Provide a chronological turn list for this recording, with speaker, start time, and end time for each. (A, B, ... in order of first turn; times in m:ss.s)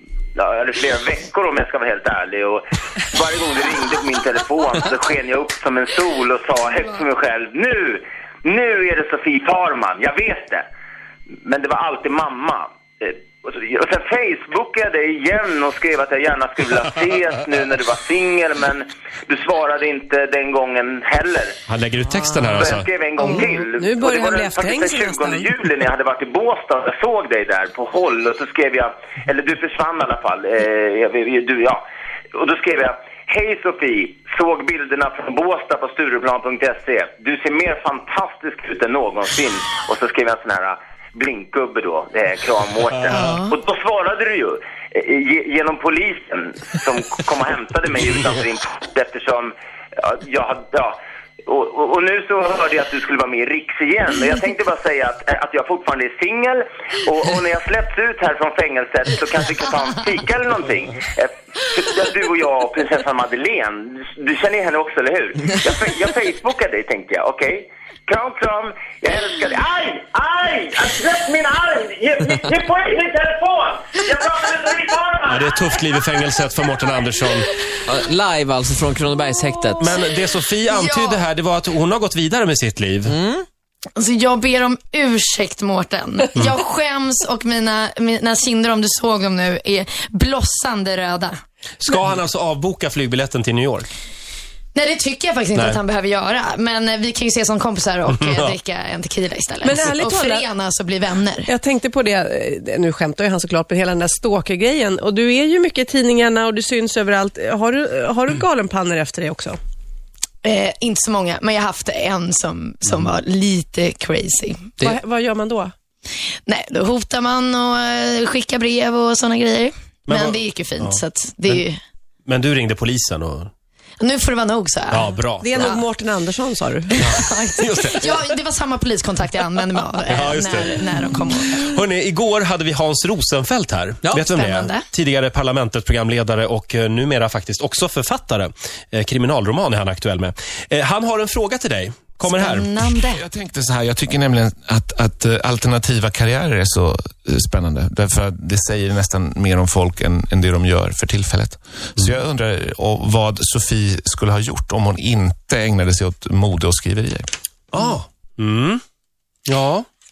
0:00.4-0:10.7 A
0:11.4-0:21.6 A
0:21.7-0:22.9 B
0:22.1-0:22.5 C
0:22.5-0:31.8 A
0:23.2-0:25.5 D
0:32.3-1:15.2 A
0:43.1-0:43.6 E
1:15.3-1:17.5 B
1:17.8-1:19.9 C
1:19.8-1:23.2 B
1:20.7-1:21.2 E
1:23.1-1:23.4 C
1:24.0-1:31.4 E
1:31.8-1:33.9 B
1:34.8-1:41.5 E
1:38.2-1:38.6 B
1:39.6-1:40.4 D
1:41.5-1:49.6 D
1:50.4-1:54.7 E
1:54.8-1:55.7 D
1:56.5-2:01.8 E
2:00.1-2:01.6 B
2:02.3-2:03.5 B
2:04.0-2:05.8 E
2:04.9-2:05.6 B
2:05.4-2:07.1 D
2:06.9-2:11.6 E
2:07.0-2:08.1 B
2:10.1-2:10.8 B
2:11.5-2:22.7 B
2:14.1-2:14.9 E
2:22.3-2:23.2 E
2:23.1-2:37.3 F
2:37.7-2:38.8 B
2:39.5-2:39.9 B